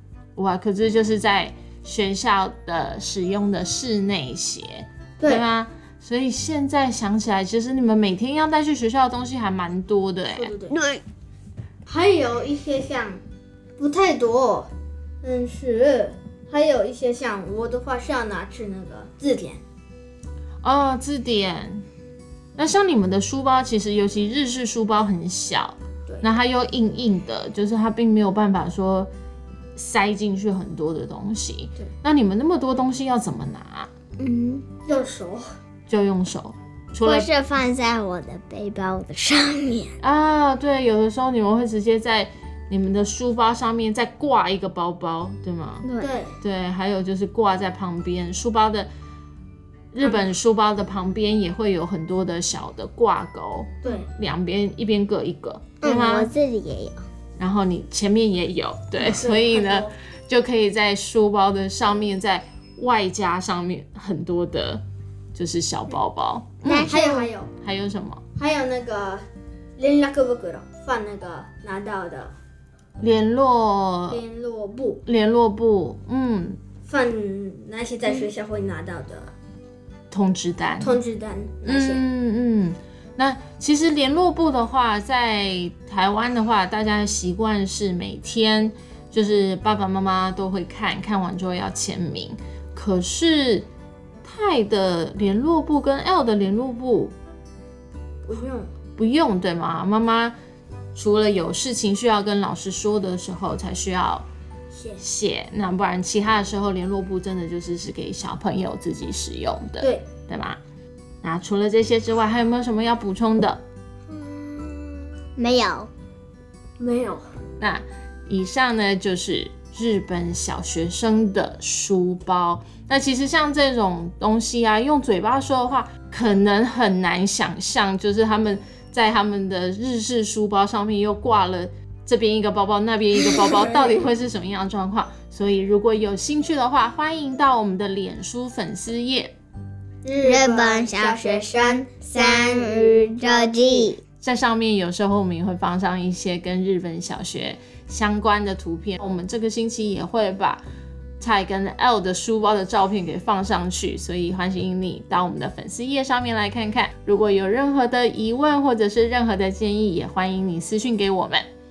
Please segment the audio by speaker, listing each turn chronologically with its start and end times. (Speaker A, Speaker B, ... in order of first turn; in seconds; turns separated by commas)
Speaker A: 0.3-10.5, Speaker B: 10.3-10.8, Speaker C: 10.7-11.0, Speaker B: 11.8-13.2, Speaker B: 13.8-14.7, Speaker B: 15.2-19.6, Speaker A: 20.6-21.9, Speaker A: 22.6-29.1, Speaker A: 29.8-33.9, Speaker C: 34.2-34.6, Speaker B: 34.9-35.5, Speaker A: 35.9-37.3, Speaker C: 37.0-40.0, Speaker A: 40.0-45.9, Speaker C: 45.8-46.1, Speaker B: 46.0-46.4, Speaker A: 46.4-48.9, Speaker A: 49.9-56.3, Speaker B: 53.8-54.1, Speaker C: 55.8-57.0, Speaker A: 57.4-64.8, Speaker B: 59.0-59.9, Speaker A: 65.3-67.0, Speaker C: 66.6-67.3, Speaker B: 66.8-67.5, Speaker A: 67.6-68.2, Speaker B: 68.3-69.2, Speaker B: 69.8-72.3, Speaker A: 73.0-74.2, Speaker B: 74.1-75.0, Speaker A: 75.0-76.6, Speaker B: 76.8-79.3, Speaker A: 80.1-81.0, Speaker B: 80.8-82.0, Speaker A: 81.6-93.7, Speaker A: 94.2-97.1, Speaker B: 98.2-98.7, Speaker A: 99.0-100.3, Speaker A: 100.9-104.2, Speaker B: 104.7-105.0, Speaker A: 105.0-110.6, Speaker B: 109.8-110.1, Speaker A: 111.2-113.6, Speaker B: 114.4-114.9, Speaker C: 115.4-115.9, Speaker B: 116.8-117.3, Speaker A: 117.6-139.3, Speaker B: 140.0-143.9, Speaker C: 140.2-144.0, Speaker A: 144.2-150.6, Speaker A: 151.2-161.4